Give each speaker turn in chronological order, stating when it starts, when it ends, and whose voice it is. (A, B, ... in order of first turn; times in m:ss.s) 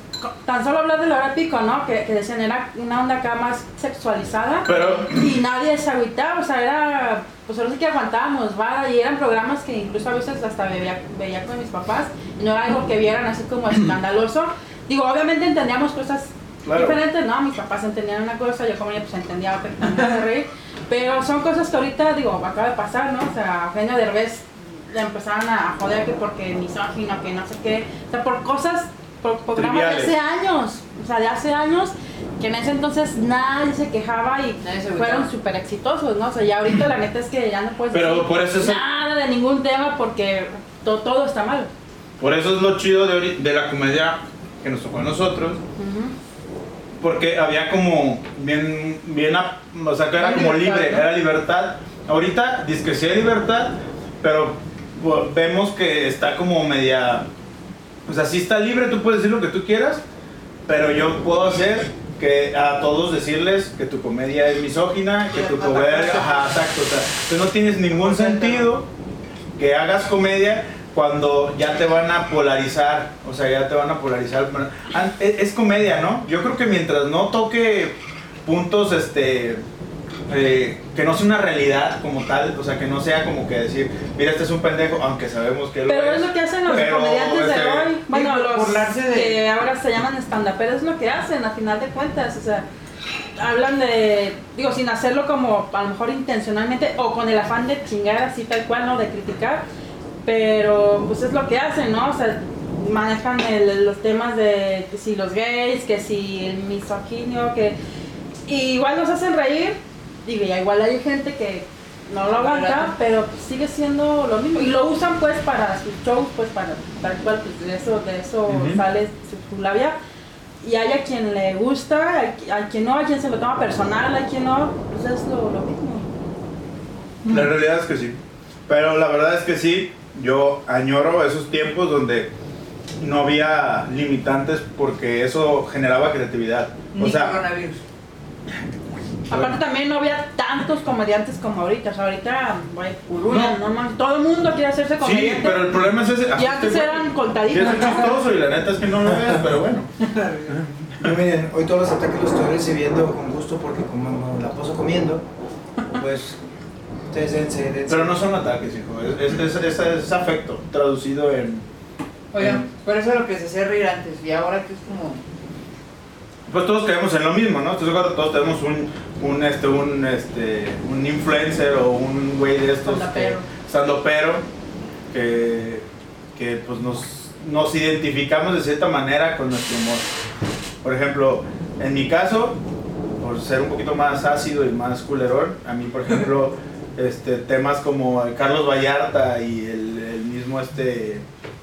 0:00.2-0:41.7 A
0:04.6-0:05.4 B
0:16.6-0:17.0 B
0:29.5-0:30.1 B
0:34.6-0:35.3 C
0:37.9-0:38.8 B
0:42.2-0:45.6 B
0:45.8-0:46.1 A
0:47.0-0:57.3 B
0:50.2-0:51.0 A
0:58.0-1:00.0 B
1:00.7-1:08.9 B
1:05.3-1:06.5 C
1:08.0-1:08.7 C
1:09.6-1:19.6 B
1:20.3-1:27.9 B
1:25.9-1:32.6 A
1:28.1-1:29.4 C
1:33.4-1:39.6 A
1:40.2-1:47.8 A
1:48.5-2:00.0 A
1:52.3-1:52.9 C
1:58.5-1:58.8 B
2:00.6-2:06.1 A
2:07.2-2:07.5 D
2:07.3-2:12.3 B
2:13.0-2:17.4 B
2:16.9-2:17.8 C
2:19.3-2:19.6 B
2:19.3-2:28.2 A
2:23.2-2:23.6 B
2:25.0-2:29.9 B
2:30.0-2:30.6 C
2:30.9-2:35.2 D
2:35.9-2:36.4 D
2:37.1-2:38.2 D
2:37.9-2:41.6 B
2:42.3-2:45.2 C
2:46.5-2:54.4 B
2:52.8-2:53.5 A
2:55.1-3:00.1 B
3:00.8-3:02.6 B
3:03.2-3:11.2 B